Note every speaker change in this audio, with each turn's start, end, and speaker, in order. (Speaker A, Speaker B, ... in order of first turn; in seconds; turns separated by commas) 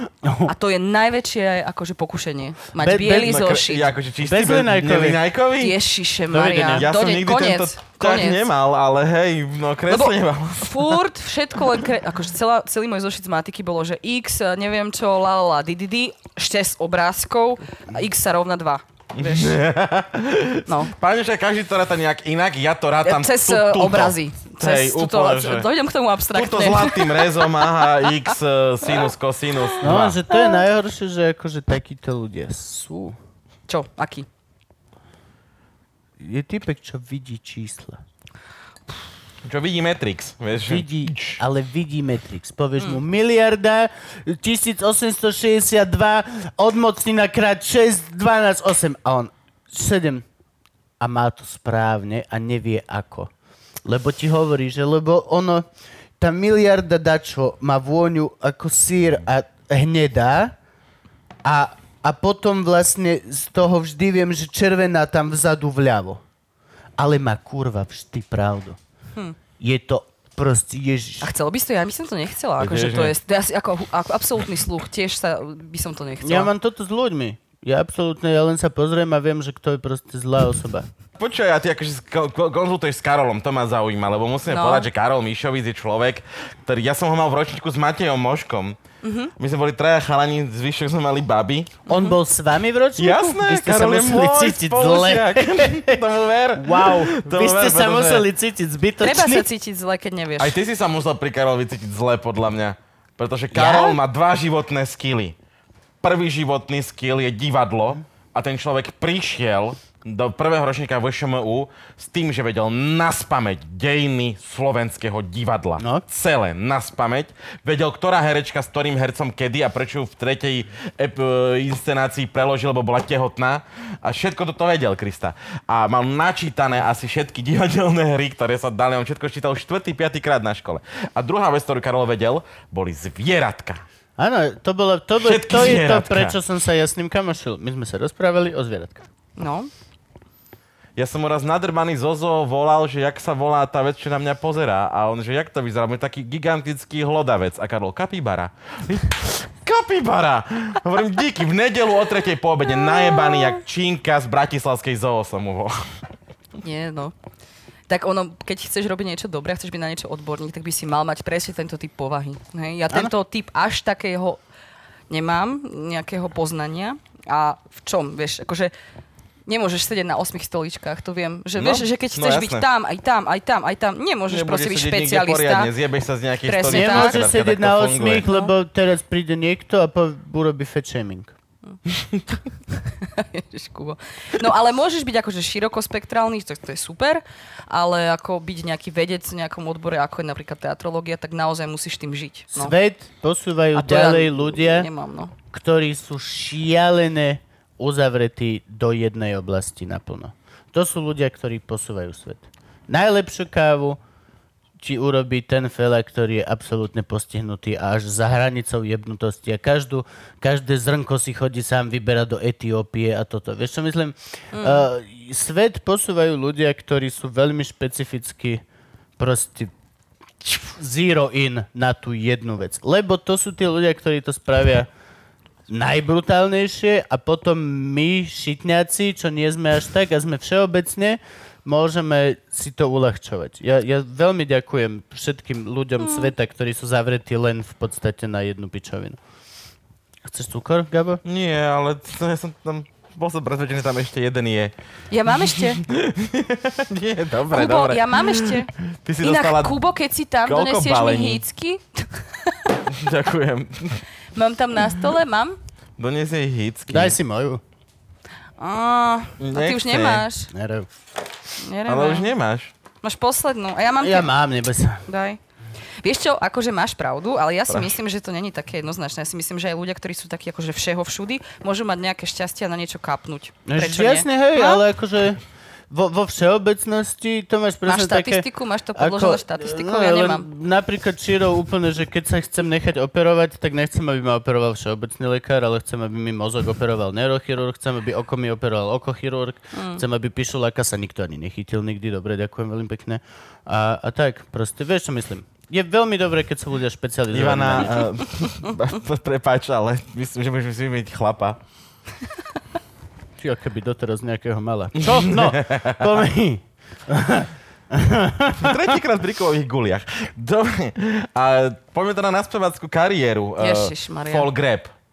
Speaker A: 0.2-0.5, Speaker B: 0.5-4.0, Speaker A: 2.8-3.4, Speaker C: 3.0-5.8, Speaker A: 4.2-5.2, Speaker B: 5.6-8.5, Speaker A: 6.3-6.9, Speaker C: 6.7-11.0, Speaker B: 9.9-19.6, Speaker C: 19.1-25.7, Speaker B: 20.7-20.9, Speaker B: 23.0-28.3, Speaker C: 26.3-30.2, Speaker A: 29.8-33.2, Speaker B: 30.3-30.6, Speaker B: 33.7-34.3, Speaker A: 36.2-38.0, Speaker C: 39.4-41.4, Speaker A: 40.6-50.2, Speaker A: 51.0-53.3, Speaker A: 53.9-55.6, Speaker A: 56.2-60.5, Speaker A: 61.4-66.2, Speaker A: 67.0-68.8, Speaker A: 69.6-71.3, Speaker B: 71.2-76.5, Speaker C: 72.6-73.2, Speaker A: 76.2-80.9, Speaker C: 81.2-88.8, Speaker B: 84.5-84.9, Speaker B: 89.0-89.3, Speaker C: 89.4-91.8, Speaker A: 91.9-96.0, Speaker B: 91.9-92.2, Speaker C: 93.0-98.3, Speaker A: 96.6-99.5, Speaker B: 99.0-100.6, Speaker C: 100.4-105.3, Speaker A: 103.5-104.0, Speaker C: 106.0-133.8, Speaker A: 115.8-116.0, Speaker A: 134.2-139.1, Speaker C: 135.2-136.4, Speaker B: 139.4-139.7, Speaker C: 141.0-155.8, Speaker B: 152.8-153.6, Speaker B: 156.6-157.2, Speaker B: 157.9-164.4, Speaker B: 165.1-168.7, Speaker B: 169.5-175.7, Speaker C: 171.6-172.7, Speaker C: 174.3-178.3, Speaker B: 176.4-177.3, Speaker A: 176.7-181.3, Speaker C: 181.9-182.2, Speaker B: 182.7-192.7, Speaker A: 192.5-194.9, Speaker B: 193.7-195.3, Speaker A: 195.5-204.0, Speaker A: 204.8-218.6, Speaker B: 214.5-214.9, Speaker A: 219.2-219.7, Speaker A: 220.4-224.9, Speaker A: 225.7-239.2, Speaker B: 236.0-236.3, Speaker A: 240.2-241.2, Speaker C: 241.2-244.7, Speaker B: 245.1-245.8, Speaker C: 245.4-249.8, Speaker B: 247.5-248.7, Speaker B: 249.2-252.8, Speaker C: 250.5-251.4, Speaker C: 252.9-254.1, Speaker B: 254.3-255.6, Speaker C: 256.0-257.2, Speaker A: 256.9-257.6, Speaker B: 258.6-260.5, Speaker C: 259.4-260.3, Speaker A: 260.5-260.9, Speaker B: 261.6-262.3, Speaker C: 261.9-262.7, Speaker B: 263.0-264.3, Speaker A: 264.0-265.1, Speaker B: 265.1-265.4, Speaker B: 266.0-274.8, Speaker A: 273.7-298.0, Speaker B: 277.9-280.5, Speaker B: 289.7-290.0, Speaker C: 297.3-301.6, Speaker A: 303.4-308.9, Speaker C: 305.0-306.1, Speaker C: 308.6-314.9, Speaker B: 313.6-314.5